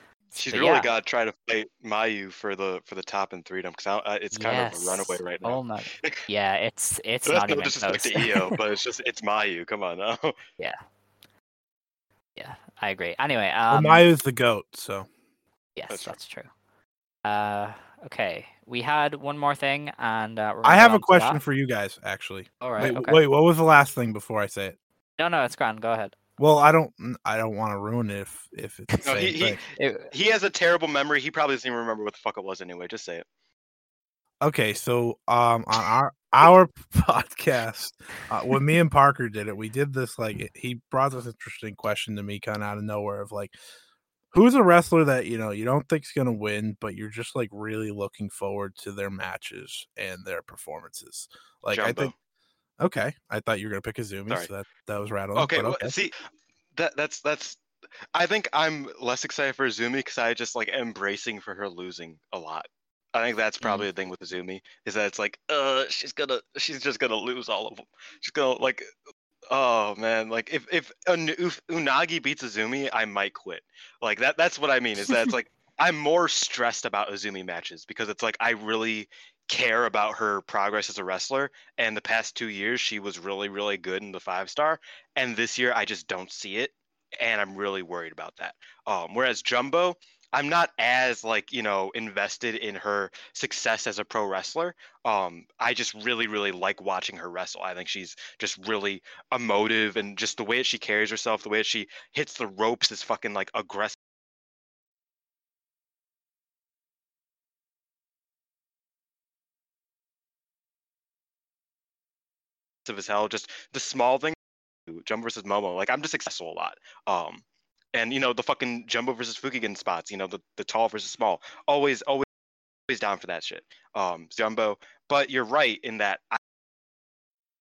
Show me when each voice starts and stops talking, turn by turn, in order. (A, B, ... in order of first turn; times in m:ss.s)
0:00.3-0:00.9 A
0:00.4-0:06.2 B
0:04.3-0:08.6 A
0:07.3-0:10.4 B
0:12.4-0:14.0 A
0:13.7-0:15.1 C
0:15.8-0:16.5 A
0:15.9-0:16.2 B
0:17.2-0:21.4 A
0:20.6-0:24.8 C
0:22.6-0:23.2 A
0:25.2-0:26.1 A
0:26.4-0:29.6 C
0:29.0-0:33.2 B
0:29.8-0:30.1 A
0:34.4-0:43.6 C
0:44.3-0:52.1 C
0:51.7-0:52.1 B
0:52.8-0:56.0 C
0:55.4-0:56.2 B
0:56.7-0:57.6 B
0:58.1-1:08.9 B
1:09.5-1:44.0 B
1:52.8-1:54.4 B
1:54.9-2:02.2 B
2:02.9-2:06.4 B